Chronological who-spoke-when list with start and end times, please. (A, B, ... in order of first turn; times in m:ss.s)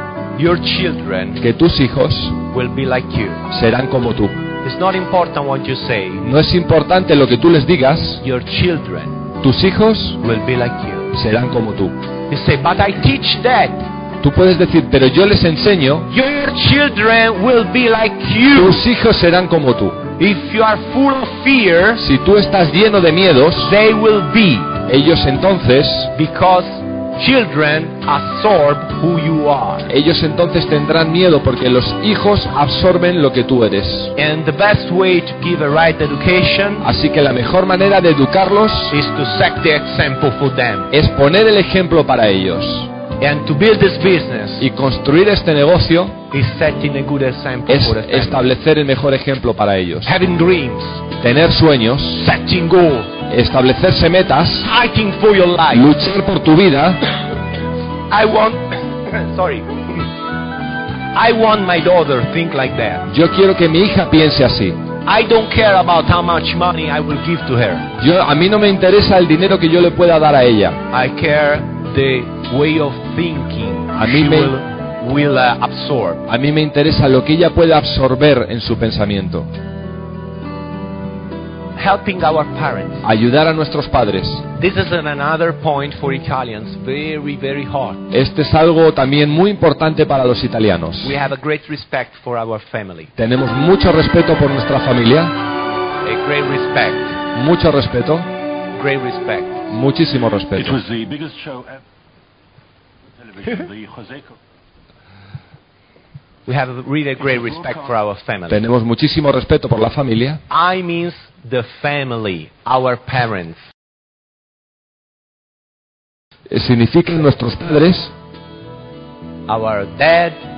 0:00.3-0:01.4 A
0:01.4-0:02.4 B
0:02.5-0:03.4 A
0:03.5-0:04.4 B
0:04.6-0:06.2 A
0:06.2-0:08.2 B
0:08.2-0:09.2 A
0:09.4-0:10.2 B
0:10.2-0:11.1 A
0:11.1-0:12.0 B
0:12.3-0:13.8 A
0:14.2-0:16.1 B
0:16.1-0:18.8 A
0:18.5-0:20.0 B
0:20.2-0:22.0 A
0:22.0-0:23.7 B
0:23.6-0:24.8 A
0:24.9-0:26.1 B
0:26.1-0:29.9 A
0:29.9-0:34.1 B
0:34.2-0:36.9 A
0:36.8-0:39.0 B
0:38.9-0:40.9 A
0:40.9-0:42.9 B
0:43.2-0:44.7 A
0:44.6-0:46.2 B
0:46.3-0:48.5 A
0:47.7-0:50.1 B
0:50.0-0:51.1 A
0:51.2-0:52.2 B
0:52.1-0:53.1 A
0:53.3-0:54.7 B
0:54.6-0:55.9 A
0:55.7-0:57.0 B
0:58.1-1:00.1 A
1:01.1-1:03.1 A
1:03.1-1:04.8 B
1:05.0-1:07.9 A
1:08.0-1:10.8 B
1:10.9-1:16.2 A
1:13.9-1:14.6 B
1:16.3-1:19.5 B
1:21.8-1:23.0 A
1:23.0-1:24.4 B
1:24.5-1:28.1 A
1:28.1-1:31.1 B
1:31.0-1:33.1 A
1:33.2-1:35.3 B
1:36.0-1:37.2 A
1:37.3-1:38.3 B
1:38.7-1:39.7 A
1:39.7-1:40.8 B
1:40.6-1:41.8 C
1:43.2-1:44.4 C
1:46.4-1:48.6 A
1:47.2-1:47.9 C
1:48.5-1:50.4 B
1:50.5-1:53.6 A
1:56.5-1:58.1 B
1:59.5-2:00.4 A